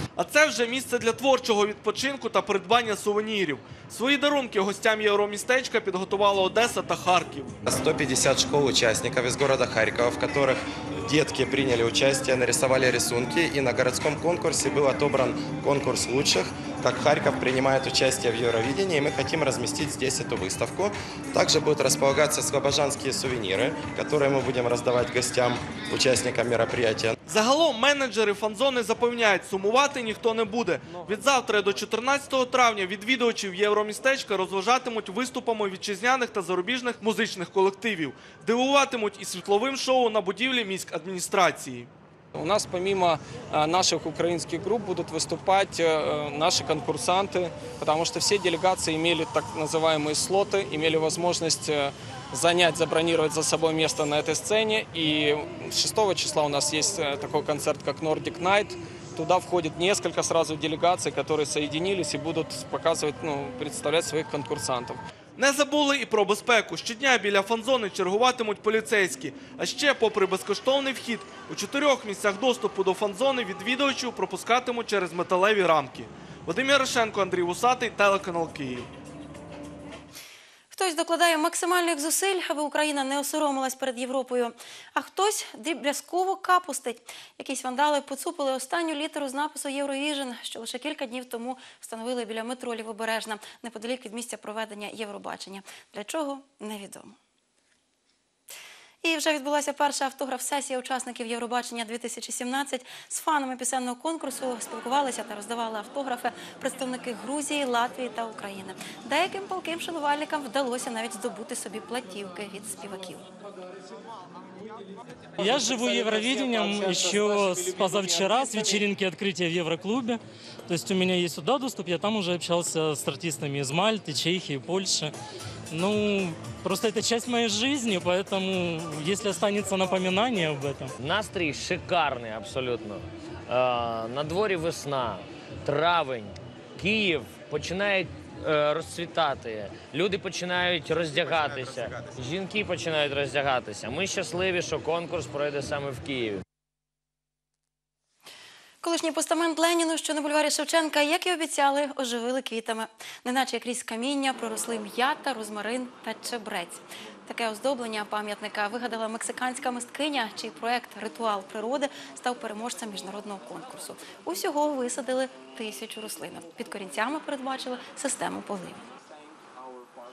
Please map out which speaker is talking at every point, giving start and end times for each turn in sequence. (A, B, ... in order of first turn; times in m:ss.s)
0:00.2-0:07.5 A
0:07.7-0:27.2 B
0:27.3-0:41.9 A
0:42.3-1:05.0 C
1:05.4-1:18.9 A
1:20.7-1:37.2 D
1:39.0-1:53.3 D
1:55.4-2:05.1 E
2:05.7-2:10.9 E
2:11.0-2:26.4 F
2:28.8-2:48.9 D